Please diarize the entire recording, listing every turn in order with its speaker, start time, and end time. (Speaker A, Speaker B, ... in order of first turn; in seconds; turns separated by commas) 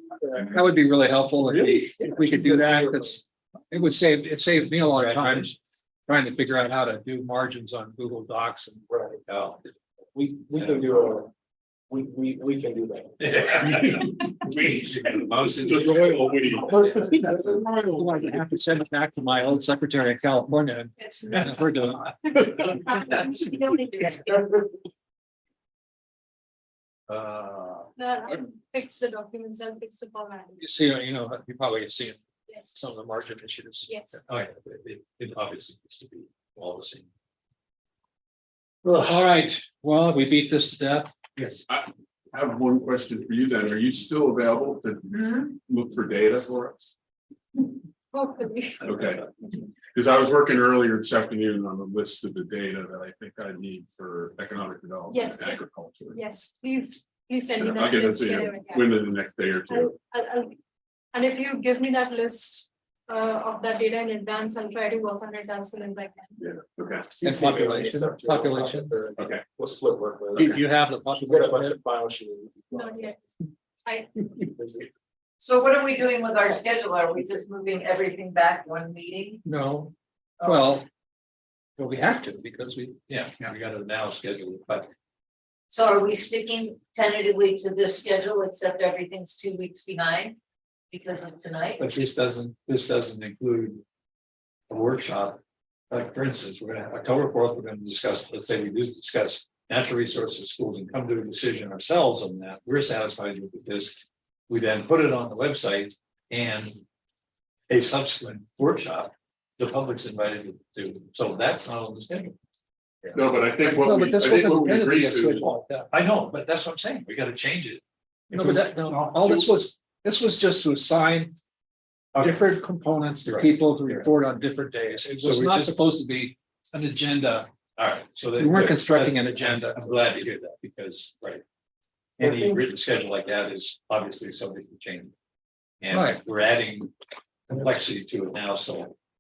Speaker A: 0.2-0.5, Speaker B: 0.4-5.6, Speaker A: 1.9-3.2, Speaker C: 4.9-5.6, Speaker B: 6.1-8.8, Speaker A: 8.9-9.2, Speaker C: 9.3-9.6, Speaker A: 10.1-11.3, Speaker C: 10.6-10.9, Speaker A: 11.9-13.5, Speaker C: 13.2-16.9, Speaker D: 15.6-17.2, Speaker A: 16.7-17.6, Speaker B: 17.2-22.7, Speaker E: 21.0-21.7, Speaker E: 22.7-24.6, Speaker C: 27.1-27.9, Speaker F: 28.0-30.6, Speaker B: 30.6-32.2, Speaker F: 32.5-32.8, Speaker B: 32.7-34.0, Speaker F: 33.9-34.2, Speaker C: 34.3-37.1, Speaker C: 38.9-39.2, Speaker B: 38.9-41.6, Speaker D: 41.7-46.9, Speaker F: 48.1-48.9, Speaker D: 48.8-56.2, Speaker F: 55.1-59.0, Speaker D: 57.5-59.9, Speaker F: 59.7-60.6, Speaker F: 61.1-66.3, Speaker D: 66.4-67.2, Speaker A: 67.1-73.1, Speaker B: 67.2-69.1, Speaker D: 69.2-69.4, Speaker B: 70.4-71.8, Speaker F: 72.7-73.2, Speaker F: 73.8-74.1, Speaker A: 74.5-74.9, Speaker E: 75.4-79.4, Speaker B: 79.4-79.9, Speaker E: 80.4-80.7, Speaker B: 80.4-80.9, Speaker B: 81.8-83.0, Speaker C: 83.1-84.9, Speaker E: 85.7-90.4, Speaker E: 90.9-91.8, Speaker C: 91.8-93.8, Speaker C: 94.7-95.4, Speaker C: 95.9-106.8, Speaker C: 107.7-112.3, Speaker D: 113.1-115.6, Speaker B: 113.6-115.9, Speaker C: 115.9-117.8, Speaker D: 118.3-119.5, Speaker B: 118.3-121.4, Speaker B: 122.2-127.5, Speaker C: 123.2-124.1, Speaker C: 125.2-125.8, Speaker C: 127.8-131.4, Speaker B: 128.4-129.9, Speaker C: 132.2-135.1, Speaker C: 135.8-136.9, Speaker B: 135.9-136.2, Speaker C: 137.5-138.9